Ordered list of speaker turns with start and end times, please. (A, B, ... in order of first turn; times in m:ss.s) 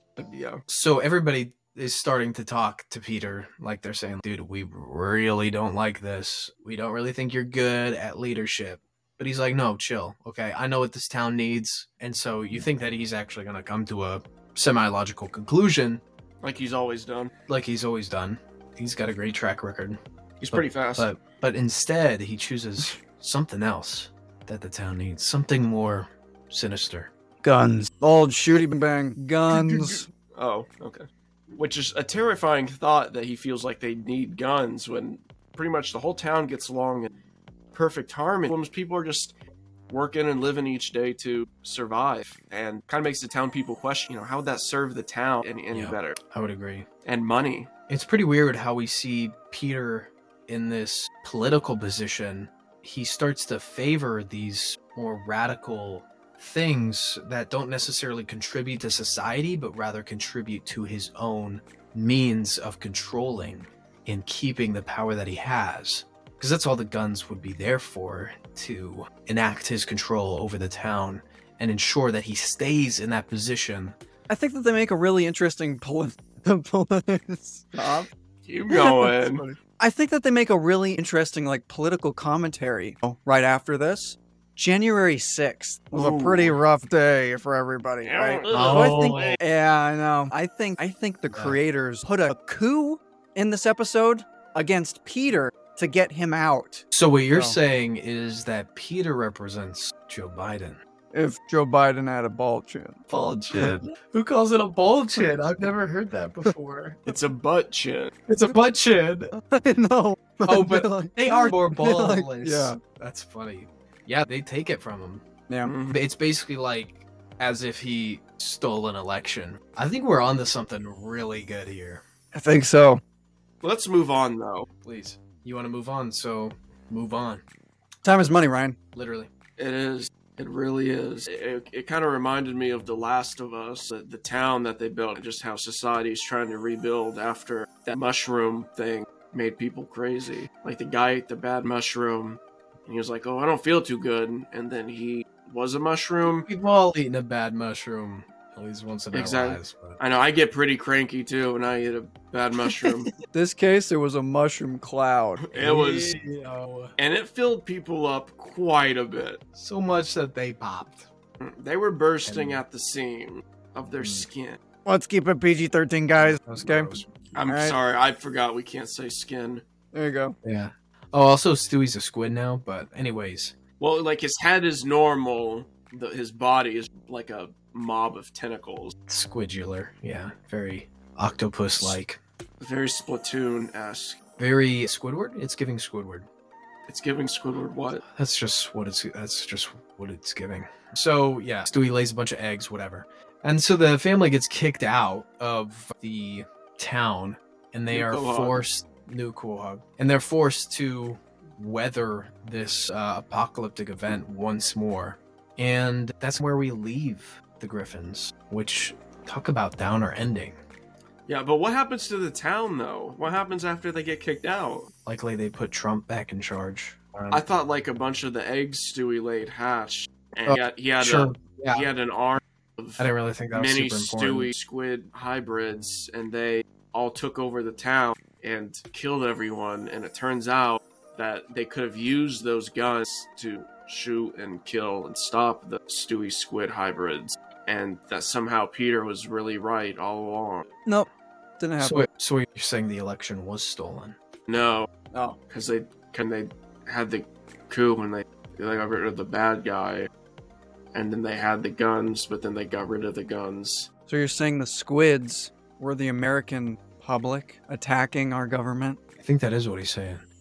0:00.2-0:00.6 A
0:00.7-0:16.0 B
0:16.4-0:17.3 A
0:17.5-0:27.1 B
0:20.4-0:21.1 A
0:27.4-0:30.1 C
0:29.5-0:37.1 A
0:37.7-0:39.4 A
0:39.9-0:46.2 A
0:45.7-0:46.9 B
0:47.0-0:47.7 A
0:47.9-1:14.0 B
1:14.3-1:18.1 C
1:18.5-1:19.4 A
1:18.7-1:37.6 C
1:25.9-1:26.6 A
1:28.0-1:29.4 A
1:28.5-1:29.4 B
1:31.3-1:31.6 B
1:36.9-1:40.8 B
1:41.1-1:43.0 C
1:43.1-1:47.1 B
1:47.1-1:48.1 A
1:48.3-1:49.3 B
1:49.3-1:52.8 C
1:50.5-1:55.2 B
1:55.6-1:56.0 A
1:55.9-2:02.0 B
2:02.3-2:03.0 C
2:03.6-2:04.7 A
2:04.8-2:07.4 B
2:08.0-2:08.8 C
2:09.0-2:09.3 B
2:09.6-2:26.5 A
2:26.4-2:30.0 B
2:29.1-2:33.1 A
2:32.6-2:33.1 B
2:33.3-2:35.5 C
2:35.4-2:36.2 A
2:35.6-2:36.9 B
2:37.0-2:39.4 A
2:39.6-2:41.1 B
2:41.4-2:44.6 A
2:42.3-2:42.6 B
2:44.0-2:44.3 B
2:44.9-2:46.9 C
2:46.2-2:47.1 B
2:47.3-2:49.6 A
2:47.5-2:47.8 C
2:49.9-2:50.4 C
2:50.4-2:53.6 B
2:53.8-2:59.0 A
2:59.1-3:02.2 B
3:02.6-3:04.2 A
3:04.4-3:06.3 B
3:06.9-3:08.0 A
3:08.1-3:30.6 B
3:17.9-3:18.7 A
3:31.3-3:34.9 A
3:35.1-3:37.4 B
3:37.3-4:00.7 A
3:40.5-3:41.9 B
3:43.0-3:44.5 B
4:01.6-4:02.1 C
4:01.8-4:04.2 B
4:04.5-4:04.9 A
4:05.1-4:05.4 C
4:05.5-4:10.1 A
4:10.9-4:13.9 A
4:14.1-4:19.0 C
4:19.2-4:20.2 B